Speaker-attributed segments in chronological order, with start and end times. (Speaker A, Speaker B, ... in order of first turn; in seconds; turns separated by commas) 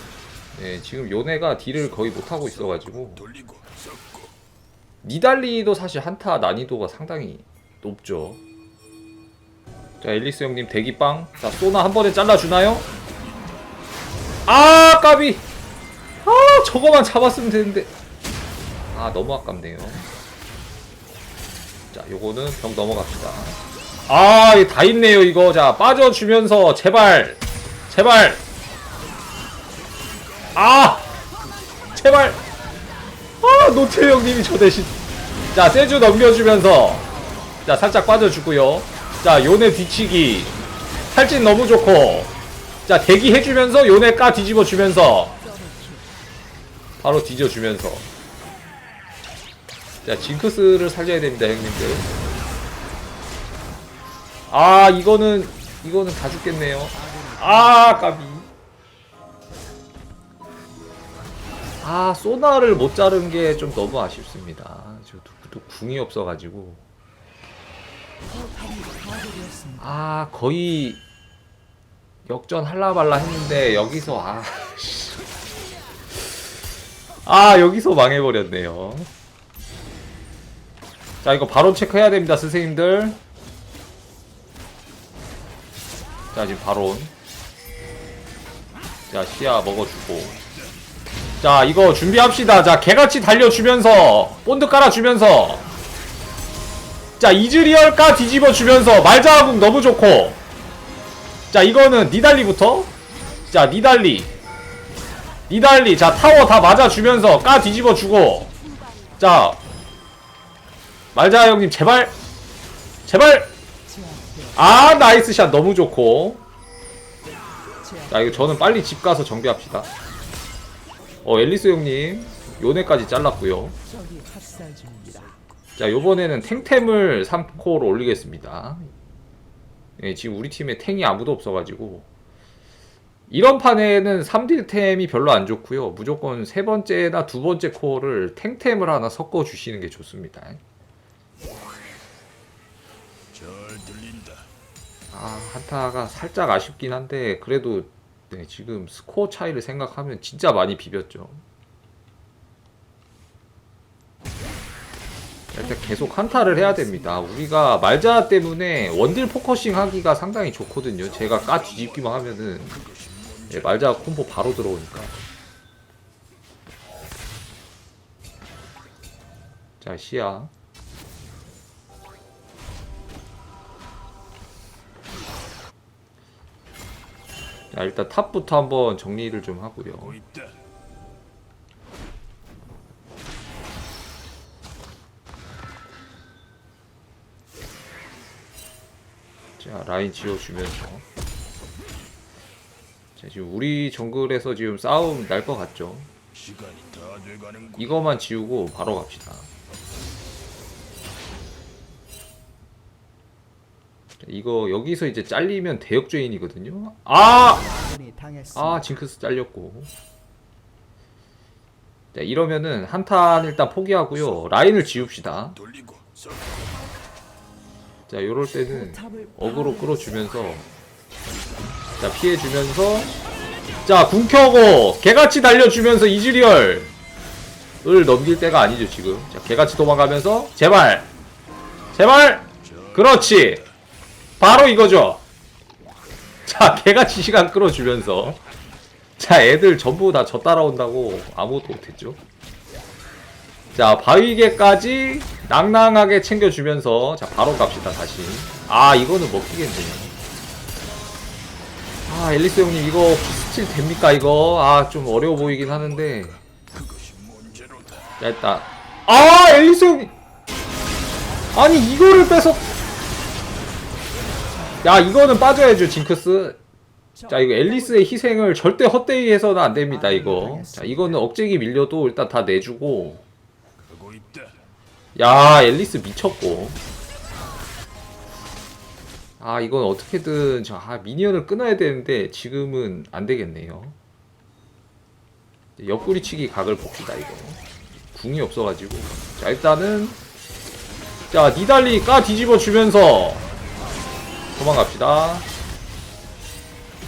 Speaker A: 0.5-3.3, Speaker A: 5.0-8.4, Speaker A: 10.0-12.9, Speaker A: 14.5-15.4, Speaker A: 16.2-17.9, Speaker A: 18.9-20.1, Speaker A: 21.9-28.4, Speaker A: 30.6-31.1, Speaker A: 31.9-32.4, Speaker A: 33.4-35.0, Speaker A: 35.5-37.0, Speaker A: 37.6-40.6, Speaker A: 41.1-42.3, Speaker A: 42.9-45.4, Speaker B: 45.5-46.1, Speaker A: 47.0-48.1, Speaker A: 50.0-52.1, Speaker A: 54.5-58.5, Speaker B: 57.1-57.4, Speaker A: 61.8-66.8, Speaker B: 68.3-69.8, Speaker A: 69.8-71.0, Speaker A: 72.3-75.2, Speaker A: 77.2-79.1, Speaker A: 81.2-83.2, Speaker A: 86.3-87.1, Speaker A: 89.1-90.4, Speaker A: 91.4-95.7, Speaker A: 97.2-100.4, Speaker A: 101.5-102.9, Speaker A: 103.5-104.3, Speaker A: 105.5-108.5, Speaker A: 109.2-109.6, Speaker A: 111.1-112.2, Speaker A: 113.1-113.5, Speaker B: 114.0-114.5, Speaker A: 114.5-116.4, Speaker A: 118.1-119.9, Speaker A: 121.2-123.8, Speaker B: 123.9-125.4, Speaker A: 125.8-128.9, Speaker A: 130.0-132.1, Speaker A: 133.3-140.6, Speaker B: 143.5-144.3, Speaker A: 145.1-151.4, Speaker A: 155.5-162.8, Speaker A: 163.5-165.2, Speaker A: 169.8-170.5, Speaker A: 177.7-180.2, Speaker A: 189.6-191.0, Speaker A: 193.2-196.1, Speaker B: 196.5-197.6, Speaker A: 197.7-199.5, Speaker A: 204.2-207.7, Speaker B: 207.8-208.5, Speaker A: 208.5-209.9, Speaker A: 212.1-215.6, Speaker A: 218.1-220.7, Speaker A: 222.0-223.1, Speaker A: 223.9-226.9, Speaker A: 227.8-231.1, Speaker A: 231.9-233.7, Speaker A: 234.4-235.2, Speaker A: 236.5-238.4, Speaker A: 239.2-242.2, Speaker A: 243.7-250.2, Speaker A: 252.1-256.4, Speaker A: 258.2-260.1, Speaker A: 261.5-262.7, Speaker A: 264.8-266.6, Speaker A: 267.3-273.2, Speaker A: 275.2-276.8, Speaker A: 279.4-284.0, Speaker A: 285.8-287.6, Speaker A: 288.1-290.2, Speaker A: 291.3-293.4, Speaker A: 294.6-295.5